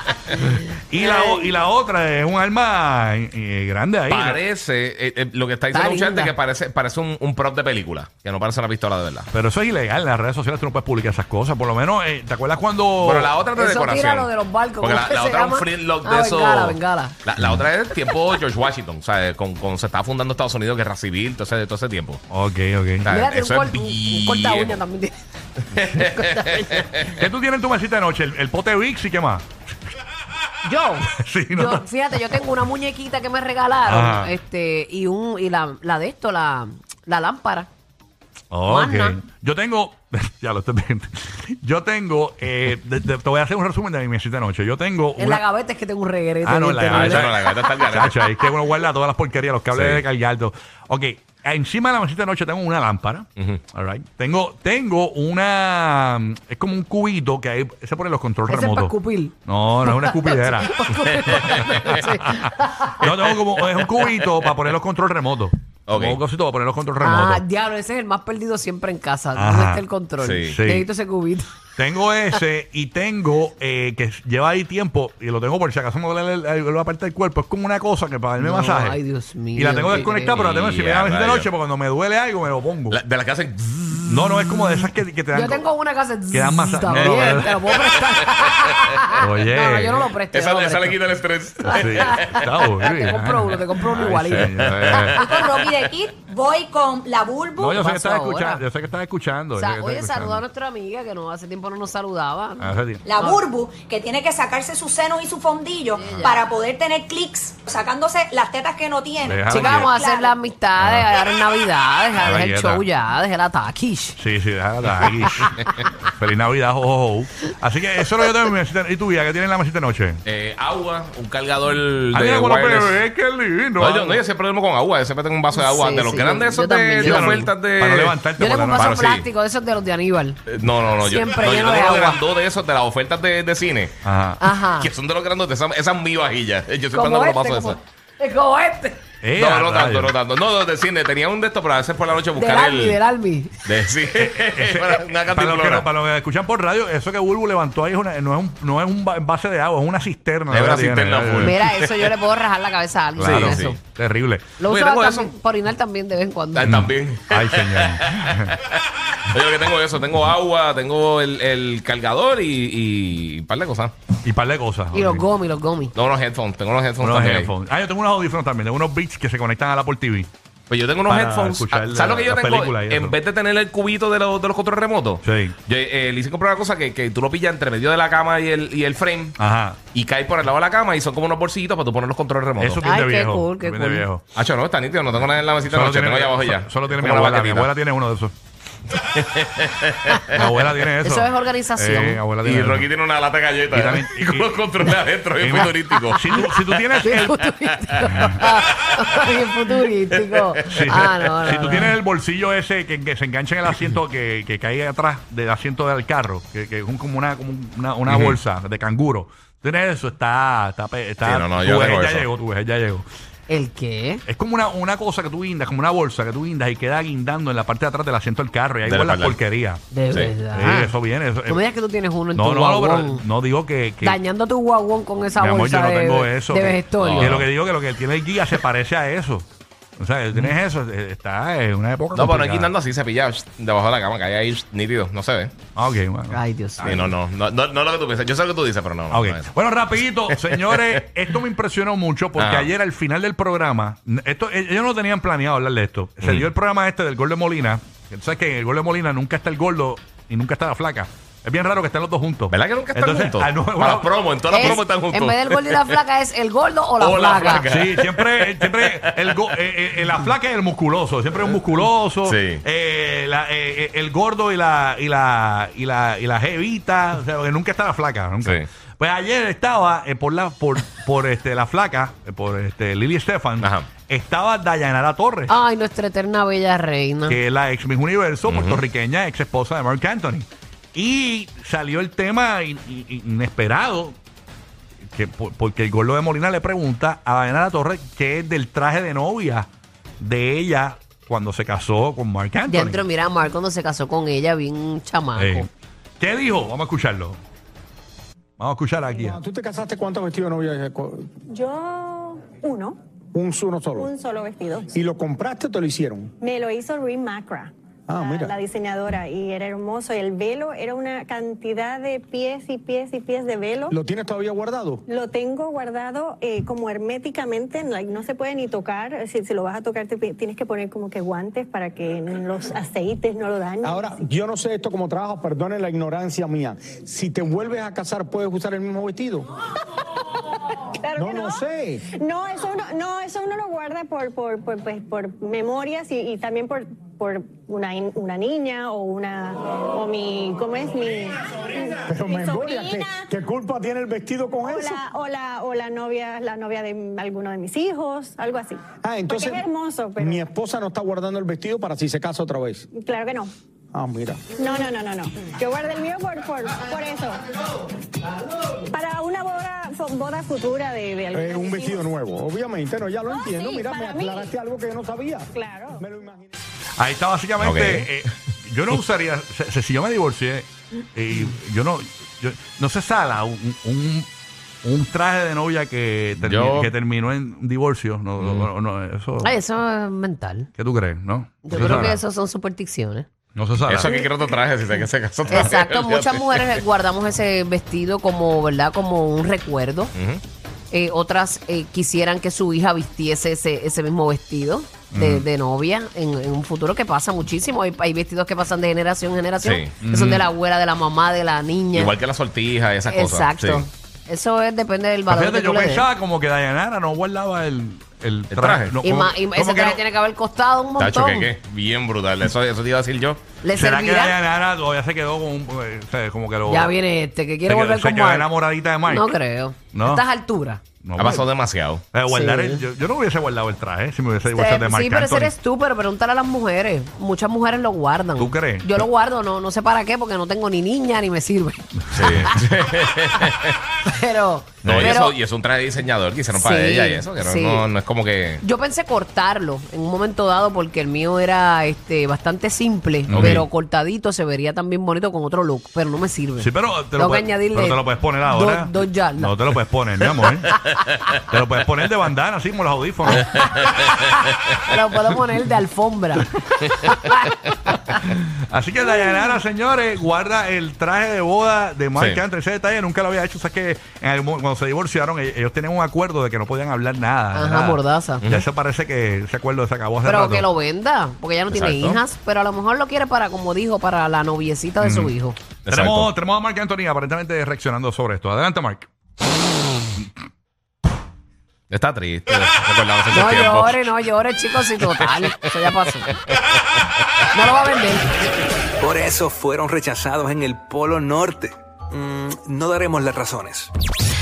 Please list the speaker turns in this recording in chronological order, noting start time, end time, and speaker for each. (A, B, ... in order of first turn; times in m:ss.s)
0:00.4-0:04.4 A
0:00.4-0:01.5 B
0:04.1-0:09.3 C
0:05.7-0:06.3 B
0:09.3-0:13.3 A
0:13.0-0:22.2 C
0:13.6-0:17.2 B
0:17.4-0:17.7 A
0:22.3-0:23.1 A
0:23.0-0:24.8 C
0:23.1-0:25.2 B
0:25.7-0:27.2 C
0:25.9-0:27.0 B
0:27.1-0:29.5 A
0:30.6-0:37.7 B
0:31.1-0:31.9 A
0:33.9-0:34.3 A
0:38.5-0:45.4 A
0:38.7-0:39.2 B
0:45.2-0:47.6 B
0:46.4-1:07.4 A
0:46.9-0:48.3 C
0:49.7-0:50.0 C
0:53.4-0:53.6 C
0:58.5-1:03.1 B
1:01.4-1:02.0 C
1:03.1-1:04.5 C
1:05.9-1:06.2 C
1:07.0-1:11.5 B
1:09.4-1:09.8 A
1:10.2-1:10.6 C
1:10.4-1:10.9 A
1:11.8-1:19.0 A
1:18.4-1:20.4 B
1:19.6-1:23.0 A
1:20.1-1:21.5 C
1:22.9-1:24.1 C
1:24.1-1:25.6 A
1:25.3-1:31.0 B
1:26.3-1:27.6 A
1:27.0-1:27.4 C
1:29.2-1:30.1 A
1:30.3-1:32.4 C
1:31.6-1:35.3 B
1:31.7-1:35.3 A
1:34.4-1:35.9 C
1:35.3-1:37.8 D
1:37.6-1:40.4 A
1:37.8-1:38.6 B
1:39.6-1:43.4 B
1:42.6-1:43.0 A
1:43.0-1:50.4 D
1:46.0-1:46.4 B
1:49.2-1:49.9 A
1:49.5-1:54.2 B
1:50.8-1:51.1 A
1:52.2-1:52.8 A
1:54.2-2:00.2 A
1:55.2-1:55.9 B
2:00.3-2:03.0 C
2:02.1-2:04.2 A
2:03.8-2:08.2 C
2:05.6-2:07.5 B
2:07.0-2:09.0 A
2:08.4-2:10.4 B
2:08.8-2:09.3 C
2:10.5-2:14.0 C
2:11.0-2:12.2 B
2:14.0-2:14.4 A
2:14.4-2:14.9 B
2:14.8-2:17.8 C
2:16.9-2:19.0 B
2:19.2-2:20.2 A
2:19.4-2:23.0 C
2:22.4-2:23.6 B
2:23.6-2:25.9 C
2:24.1-2:31.6 A
2:30.5-2:31.9 C
2:31.4-2:33.8 B
2:33.2-2:34.5 A
2:33.2-2:33.8 C
2:34.6-2:36.8 B
2:34.6-2:35.3 C
2:36.6-2:43.9 C
2:36.6-2:38.6 A
2:44.2-2:45.3 A
2:44.9-2:45.9 B
2:46.0-2:47.5 C
2:47.0-2:50.3 A
2:50.7-2:59.4 C
2:51.1-2:53.2 A
2:55.2-2:55.6 A
2:59.4-2:59.8 A
2:59.9-3:02.8 C
3:02.6-3:04.2 A
3:02.8-3:04.1 B
3:04.4-3:07.7 C
3:05.6-3:08.3 A
3:09.0-3:10.5 C
3:10.3-3:12.9 A
3:11.0-3:12.2 B
3:12.4-3:16.8 C
3:13.7-3:14.6 A
3:15.4-3:17.4 A
3:17.0-3:22.0 B
3:18.0-3:19.3 C
3:18.1-3:18.4 A
3:20.3-3:20.9 C
3:20.7-3:33.1 A
3:28.1-3:28.4 C
3:31.2-3:32.3 C
3:33.5-3:34.2 B
3:34.3-3:39.8 A
3:38.8-3:39.4 C
3:39.9-3:40.9 B
3:40.5-3:41.6 A
3:41.5-3:43.2 B
3:42.3-3:44.2 A
3:44.0-3:47.4 B
3:45.4-3:49.5 A
3:47.0-3:47.5 C
3:50.0-3:52.7 A
3:52.2-3:55.5 C
3:55.7-3:57.1 A
3:56.3-3:57.0 B
3:56.8-3:59.5 C
3:59.1-4:14.8 A
4:00.3-4:01.0 C
4:02.4-4:02.7 C
4:06.2-4:06.5 C
4:12.5-4:16.0 C
4:14.5-4:17.7 B
4:17.0-4:19.5 C
4:17.7-4:35.5 A
4:22.2-4:22.6 C
4:33.6-4:33.9 C
4:35.5-4:37.4 B
4:37.3-4:44.2 A
4:38.5-4:38.8 C
4:45.1-4:49.7 A
4:50.2-4:53.0 A
4:52.7-4:55.7 B
4:55.4-4:55.7 A
4:56.2-4:57.4 A
4:58.6-4:59.4 A
4:59.2-5:01.3 E
5:01.5-5:03.0 F
5:03.3-5:04.1 E
5:04.0-5:04.9 F
5:04.9-5:06.3 E
5:06.4-5:14.0 F
5:08.1-5:08.5 E
5:13.9-5:15.0 E
5:15.1-5:24.2 F
5:23.8-5:29.5 E
5:31.0-5:43.3 F
5:31.2-5:32.0 E
5:42.0-5:45.0 E
5:44.6-5:50.5 F
5:49.0-5:49.7 E
5:50.2-5:52.9 E
5:52.9-5:53.5 F
5:53.9-5:54.5 E
5:54.5-5:57.4 F
5:58.8-6:02.1 F
6:01.3-6:06.5 E
6:03.2-6:04.5 F
6:05.5-6:06.0 F
6:07.0-6:14.3 A
6:07.6-6:08.1 C
6:14.8-6:19.5 A
6:16.4-6:16.9 C
6:18.4-6:18.7 C
6:19.4-6:20.7 B
6:20.8-6:22.2 A
6:21.6-6:23.3 B
6:23.6-6:24.1 A
6:23.8-6:26.8 C
6:25.5-6:30.1 B
6:30.1-6:30.4 C
6:30.9-6:42.1 B
6:35.1-6:35.5 A
6:39.6-6:39.9 C
6:40.0-6:40.5 A
6:42.0-6:43.8 C
6:43.1-6:46.1 B
6:45.3-6:50.0 A
6:48.5-6:49.0 C
6:49.0-6:51.5 B
6:51.0-6:53.4 C
6:53.6-6:54.4 B
6:53.7-6:56.9 A
6:56.7-6:58.5 B
6:57.6-6:59.4 A
6:59.1-7:00.8 B
6:59.9-7:00.2 A
7:01.0-7:01.5 A
7:01.2-7:02.0 C
7:02.1-7:05.5 A
7:02.3-7:02.8 B
7:04.5-7:12.7 B
7:08.4-7:09.1 A
7:12.0-7:12.6 A
7:12.1-7:13.8 C
7:14.1-7:15.3 B
7:14.8-7:15.2 A
7:14.8-7:18.6 C
7:16.5-7:17.9 B
7:18.6-7:29.6 B
7:23.3-7:23.7 A
7:23.4-7:23.6 C
7:26.6-7:30.8 A
7:31.5-7:33.7 A
7:33.3-7:38.2 B
7:33.5-7:33.9 C
7:38.2-7:50.7 A
7:42.2-7:42.4 C
7:47.5-7:48.4 B
7:50.2-7:55.6 B
7:51.7-7:52.2 C
7:55.0-7:55.3 A
7:55.8-7:56.3 C
7:55.9-7:59.1 A
8:01.9-8:04.1 C
8:03.3-8:06.3 B
8:07.5-8:08.3 B
8:09.0-8:13.9 G